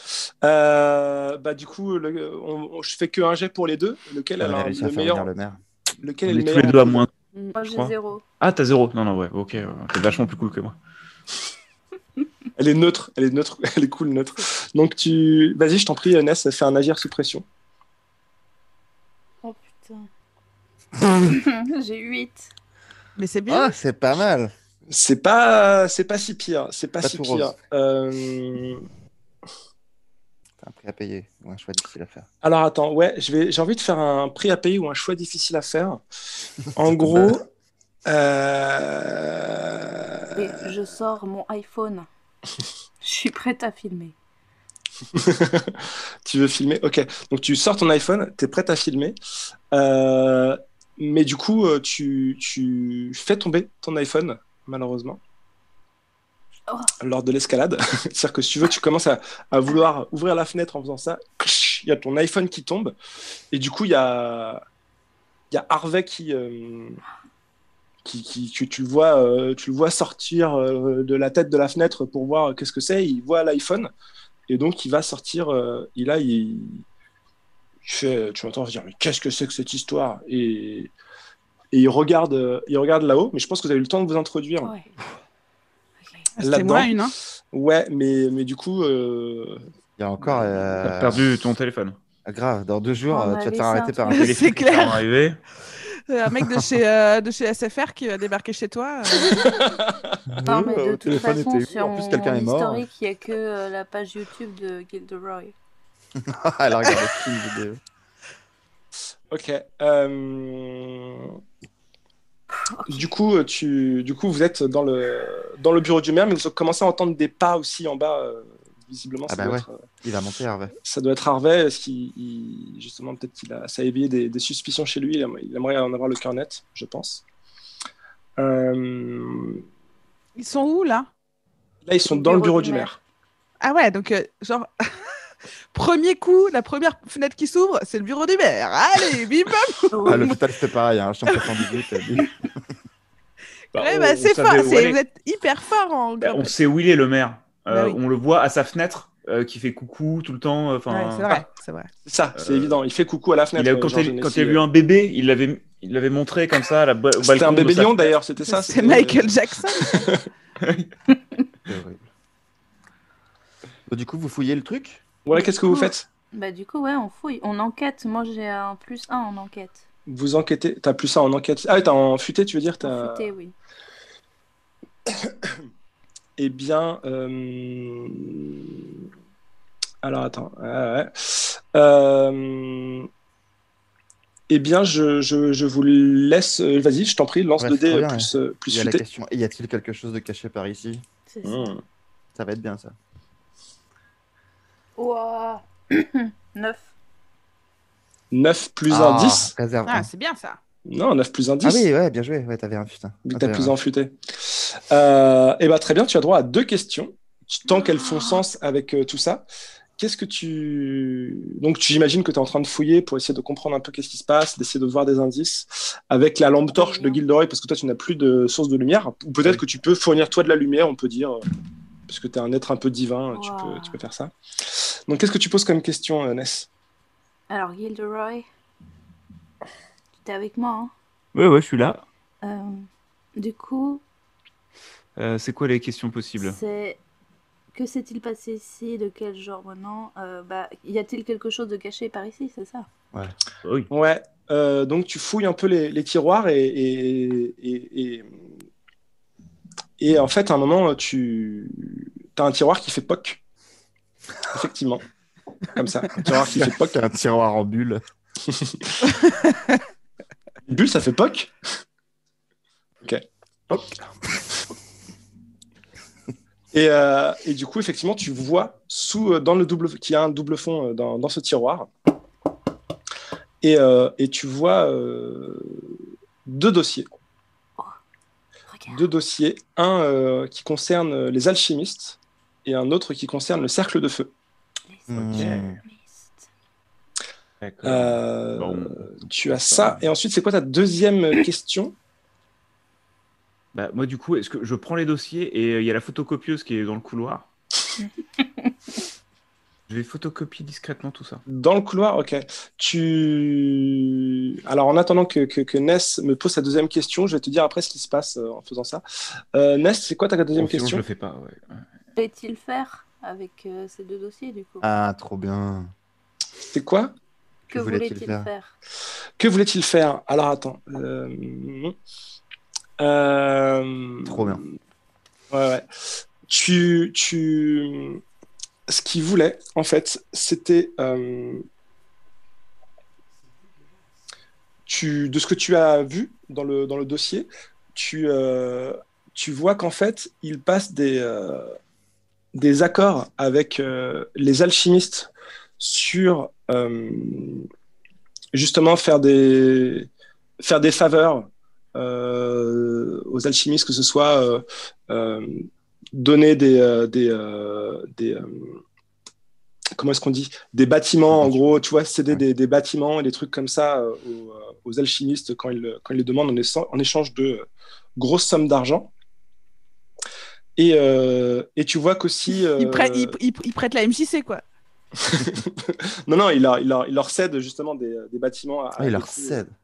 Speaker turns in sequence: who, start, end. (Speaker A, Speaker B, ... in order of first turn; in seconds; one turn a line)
Speaker A: 0.4-5.3
Speaker B: 4.4-5.6
Speaker A: 6.0-7.1
Speaker C: 6.2-7.1
Speaker D: 7.5-8.2
Speaker C: 7.6-10.8
Speaker A: 12.6-17.4
Speaker D: 19.4-20.1
Speaker D: 21.2-22.5
Speaker E: 23.2-23.7
Speaker B: 23.5-24.5
Speaker A: 24.9-28.8
Speaker B: 27.0-27.5
Speaker B: 30.6-32.3
Speaker A: 32.4-36.0
Speaker A: 36.7-37.4
Speaker B: 37.0-37.3
Speaker A: 38.0-40.4
Speaker D: 40.3-42.1
Speaker D: 43.0-44.1
Speaker A: 45.1-49.1
Speaker A: 49.7-55.2
Speaker A: 57.0-62.9
Speaker A: 63.5-64.6
Speaker A: 65.5-67.0
Speaker A: 68.0-73.9
Speaker A: 74.5-76.8
Speaker A: 77.8-80.9
Speaker A: 81.7-84.7
Speaker D: 84.6-84.9
Speaker E: 86.4-87.1
Speaker A: 86.4-89.6
Speaker B: 90.0-91.2
Speaker C: 90.3-92.0
Speaker B: 92.2-94.4
Speaker D: 93.1-94.2
Speaker E: 94.1-95.0
Speaker C: 94.2-95.4
Speaker E: 96.1-99.6
Speaker B: 96.4-96.7
Speaker A: 99.3-100.0
Speaker B: 100.3-102.8
Speaker D: 100.4-105.5
Speaker B: 106.2-107.8
Speaker A: 109.3-111.3
Speaker D: 112.6-113.1
Speaker A: 112.9-119.8
Speaker B: 119.3-120.7
Speaker A: 120.8-127.2
Speaker A: 128.4-129.6
Speaker E: 130.3-131.1
Speaker A: 131.8-133.0
Speaker D: 132.1-132.9
Speaker E: 133.6-134.8
Speaker E: 135.7-140.3
Speaker D: 139.9-140.4
Speaker B: 140.1-142.5
Speaker E: 141.3-141.6
Speaker E: 143.7-146.5
Speaker C: 143.7-145.0
Speaker C: 146.2-151.4
Speaker E: 147.7-148.0
Speaker E: 150.9-151.9
Speaker A: 152.0-154.6
Speaker C: 152.3-152.8
Speaker C: 153.5-158.1
Speaker A: 157.2-160.2
Speaker E: 158.4-160.1
Speaker C: 160.6-160.9
Speaker B: 161.7-162.1
Speaker B: 163.9-165.0
Speaker A: 165.2-166.1
Speaker D: 165.3-169.8
Speaker A: 170.1-173.3
Speaker D: 172.8-173.5
Speaker A: 175.1-175.5
Speaker A: 176.4-178.7
Speaker A: 180.0-183.1
Speaker A: 184.5-189.0
Speaker B: 187.6-191.0
Speaker D: 191.3-191.8
Speaker A: 191.4-191.8
Speaker B: 192.3-192.9
Speaker D: 195.0-196.9
Speaker A: 198.3-199.5
Speaker B: 198.9-200.1
Speaker E: 199.9-200.6
Speaker A: 200.8-201.8
Speaker B: 201.6-203.7
Speaker A: 203.3-209.4
Speaker D: 208.0-208.3
Speaker A: 210.0-221.4
Speaker D: 216.7-217.2
Speaker A: 222.1-226.7
Speaker D: 223.3-224.0
Speaker D: 227.5-228.4
Speaker D: 230.2-230.9
Speaker C: 231.3-232.0
Speaker D: 232.4-234.0
Speaker C: 235.2-236.6
Speaker D: 236.4-237.0
Speaker D: 237.7-242.9
Speaker C: 243.6-243.9
Speaker A: 243.9-248.3
Speaker A: 250.0-253.4
Speaker A: 254.5-255.0
Speaker A: 255.7-257.0
Speaker B: 256.2-258.0
Speaker A: 258.5-258.9
Speaker E: 259.2-259.8
Speaker A: 260.6-261.5
Speaker A: 263.0-263.9
Speaker A: 266.7-271.9
Speaker A: 273.6-275.9
Speaker A: 276.4-277.1
Speaker D: 278.7-279.0
Speaker A: 278.9-284.3
Speaker D: 284.9-286.5
Speaker B: 285.1-285.8
Speaker C: 285.3-285.7
Speaker C: 287.6-290.1
Speaker A: 287.8-291.9
Speaker C: 293.7-297.5
Speaker C: 299.9-301.4
Speaker A: 301.5-309.0
Speaker A: 309.5-311.0
Speaker C: 310.6-311.8
Speaker D: 312.1-314.9
Speaker B: 314.8-315.9
Speaker A: 316.7-317.1
Speaker B: 317.7-318.5
Speaker D: 317.7-318.7
Speaker A: 319.4-321.9
Speaker A: 323.0-324.6
Speaker B: 324.2-324.6
Speaker A: 325.5-325.9
Speaker A: 326.5-328.2
Speaker A: 328.9-331.6
Speaker A: 334.9-341.7
Speaker A: 342.5-347.6
Speaker A: 348.5-350.1
Speaker A: 350.6-358.8
Speaker A: 359.9-369.1
Speaker B: 361.3-362.4
Speaker A: 370.8-373.4
Speaker E: 372.7-374.6
Speaker A: 375.2-379.6
Speaker B: 379.0-379.7